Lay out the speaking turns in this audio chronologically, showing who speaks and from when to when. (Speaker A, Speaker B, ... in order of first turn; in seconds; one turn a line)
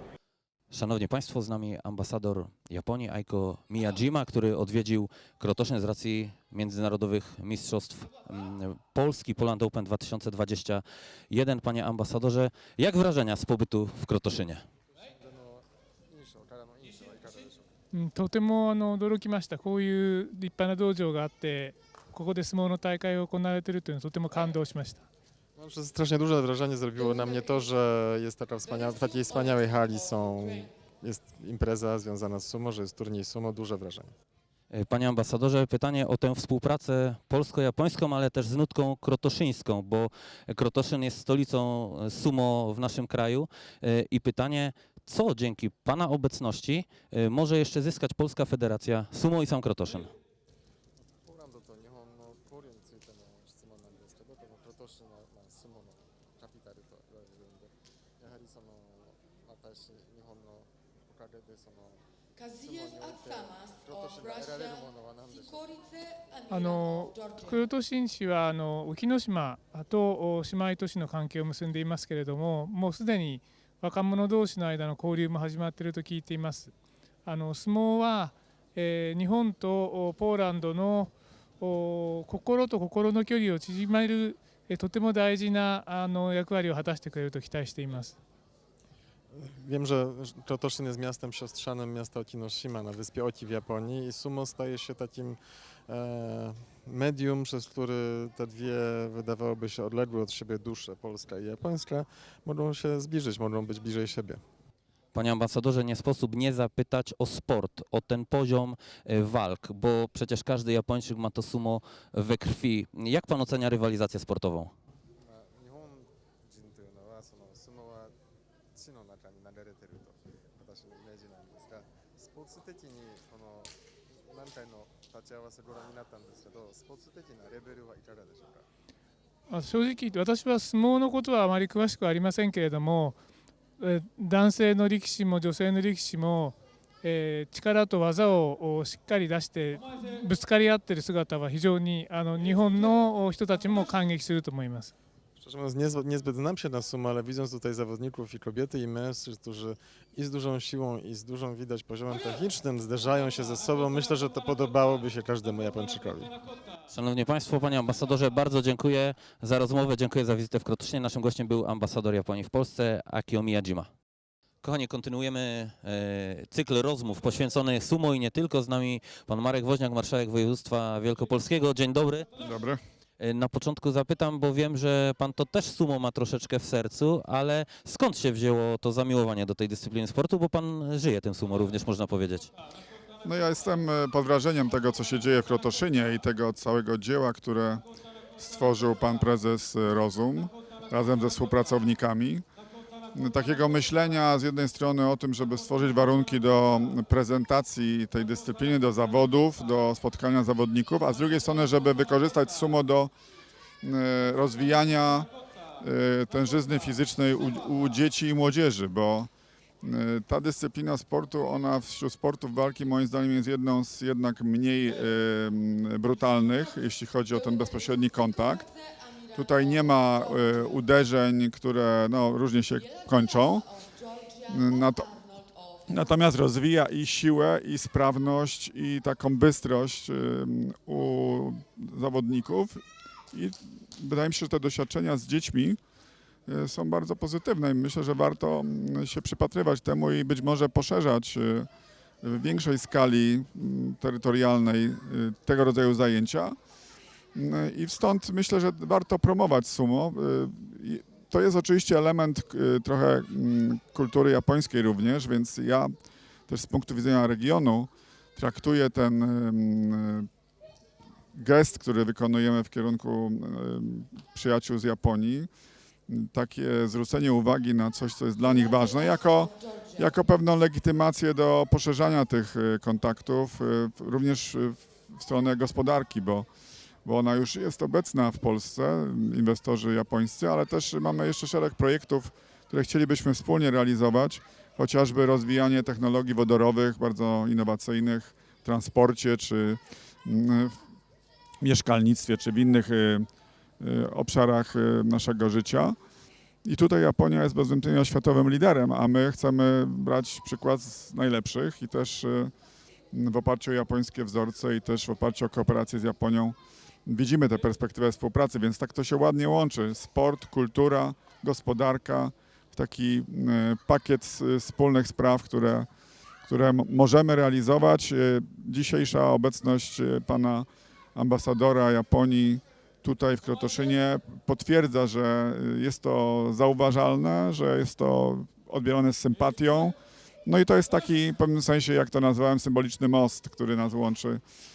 Speaker A: 0.7-14.7
Speaker B: 15.2-17.7
Speaker C: 17.9-25.0
Speaker B: 25.6-34.1
Speaker A: 34.7-50.1
Speaker B: 51.1-65.8
Speaker C: 66.5-76.7
Speaker C: 77.2-88.2
Speaker B: 89.3-104.4
Speaker A: 105.1-114.7
Speaker B: 115.2-118.1
Speaker B: 118.7-128.7
Speaker C: 129.5-133.1
Speaker C: 133.8-144.9
Speaker B: 145.4-156.3
Speaker A: 156.9-163.9
Speaker A: 164.6-172.3
Speaker D: 172.4-172.8
Speaker A: 173.2-182.5
Speaker D: 183.2-187.8
Speaker D: 188.4-192.4
Speaker D: 193.1-203.1
Speaker D: 203.8-205.3
Speaker D: 205.8-209.3
Speaker D: 209.8-218.7
Speaker D: 219.3-223.7
Speaker D: 224.4-225.2
Speaker D: 225.8-235.8
Speaker D: 236.5-241.7
Speaker D: 242.2-246.6
Speaker D: 247.3-255.9
Speaker D: 256.5-260.3
Speaker D: 261.4-265.5
Speaker D: 266.1-276.5
Speaker D: 277.1-290.8
Speaker D: 291.6-293.3
Speaker D: 293.8-296.0
Speaker D: 296.6-302.5
Speaker D: 303.1-315.9
Speaker D: 316.5-334.4